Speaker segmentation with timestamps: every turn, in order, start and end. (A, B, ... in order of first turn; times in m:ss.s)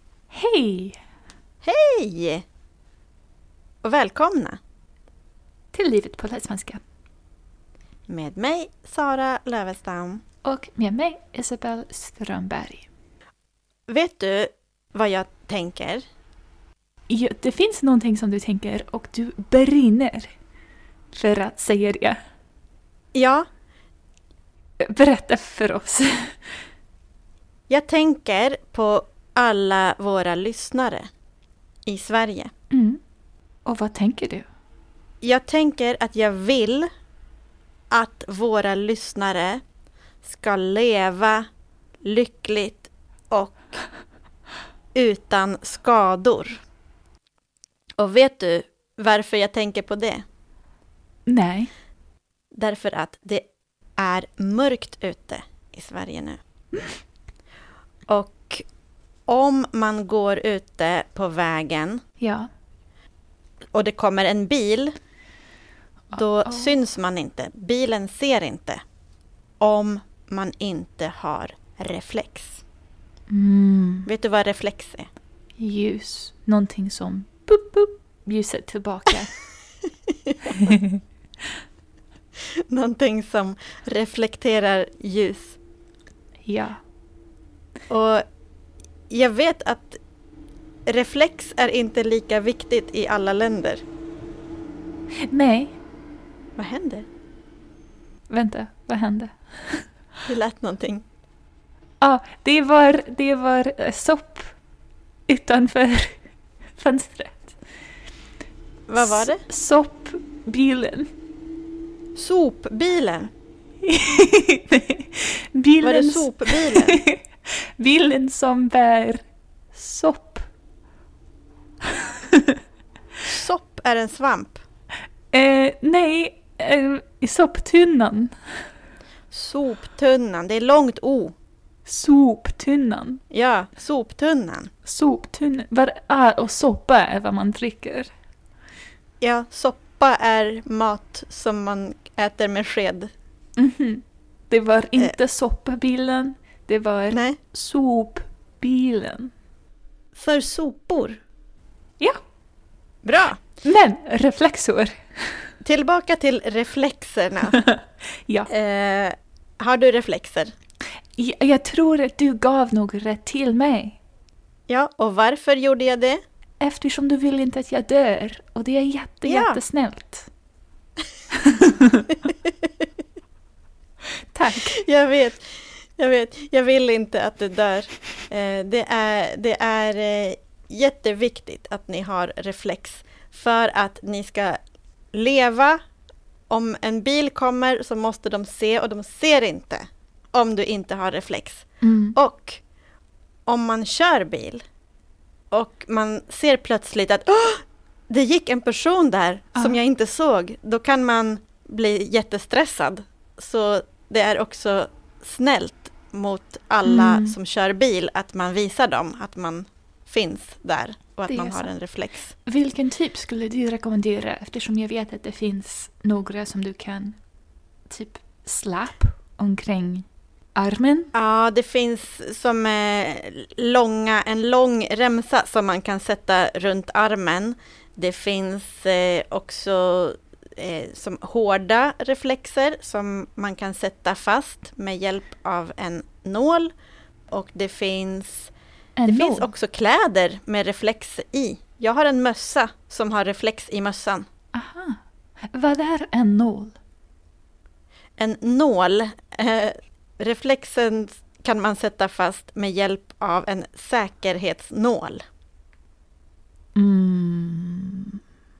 0:00.3-0:01.0 A
0:01.6-0:02.4 B
0:03.8-0:04.6 B
0:05.7-0:06.8 A
0:08.1-0:10.2 B
0:10.4-0:12.9 A
0:13.9-0:16.0 B
0:17.1-0:20.3 A
0:21.1-0:22.2 A
0:23.1-0:23.5 B
0:24.8-0:26.4 A
0:27.7-0:31.1 B
0:31.9-0:32.5 B
0:32.7-0:33.0 A
0:33.6-0:34.5 A
0:35.2-0:36.9 B
0:37.9-0:39.6 B
0:40.2-0:41.5 B
0:42.0-0:43.8 B
0:45.0-0:46.6 B
0:48.0-0:50.2 B
0:51.3-0:51.7 A
0:52.5-0:53.5 B
0:54.0-0:56.4 B
0:58.1-0:58.7 B
0:59.3-1:02.0 B
1:02.2-1:02.5 A
1:03.7-1:05.0 B
1:06.1-1:06.7 A
1:06.1-1:08.8 B
1:09.6-1:12.6 B
1:13.3-1:14.1 A
1:14.1-1:15.1 B
1:15.6-1:19.3 A
1:20.1-1:20.5 B
1:20.5-1:21.0 A
1:22.5-1:25.6 B
1:26.5-1:26.8 A
1:27.9-1:28.2 B
1:29.1-1:30.0 B
1:30.9-1:33.8 B
1:35.3-1:35.8 A
1:36.6-1:37.1 B
1:38.3-1:39.9 A
1:40.3-1:41.0 B
1:42.0-1:44.5 A
1:45.3-1:46.2 A
1:46.8-1:47.6 A
1:48.9-1:49.4 B
1:49.0-1:51.1 A
1:52.2-1:53.3 B
1:53.8-2:00.5 A
1:55.8-1:57.0 B
2:02.0-2:02.6 A
2:03.2-2:04.6 B
2:05.3-2:08.4 A
2:09.3-2:11.4 B
2:11.9-2:13.2 A
2:13.3-2:14.7 B
2:14.8-2:18.1 A
2:19.2-2:23.1 B
2:23.6-2:29.3 A
2:27.1-2:27.4 B
2:30.2-2:31.2 B
2:33.0-2:33.4 B
2:33.6-2:35.3 A
2:35.6-2:37.6 B
2:37.5-2:38.5 A
2:38.5-2:40.5 B
2:41.2-2:44.0 A
2:44.7-2:46.2 B
2:46.6-2:50.3 A
2:49.3-2:49.6 B
2:51.3-2:52.2 A
2:54.3-2:54.8 A
2:54.6-3:04.6 B
3:05.1-3:05.8 B
3:06.5-3:11.6 B
3:11.8-3:12.2 A
3:12.2-3:12.6 B
3:13.5-3:14.6 B
3:15.5-3:32.3 B
3:26.8-3:27.4 A
3:31.3-3:31.7 A
3:32.4-3:37.2 A
3:37.9-3:41.1 A
3:41.1-3:56.7 B
3:57.3-3:58.5 B
3:59.0-3:59.5 A
3:59.1-4:04.3 B
4:04.5-4:05.0 A
4:05.5-4:06.8 A
4:08.2-4:15.2 B
4:16.8-4:18.2 A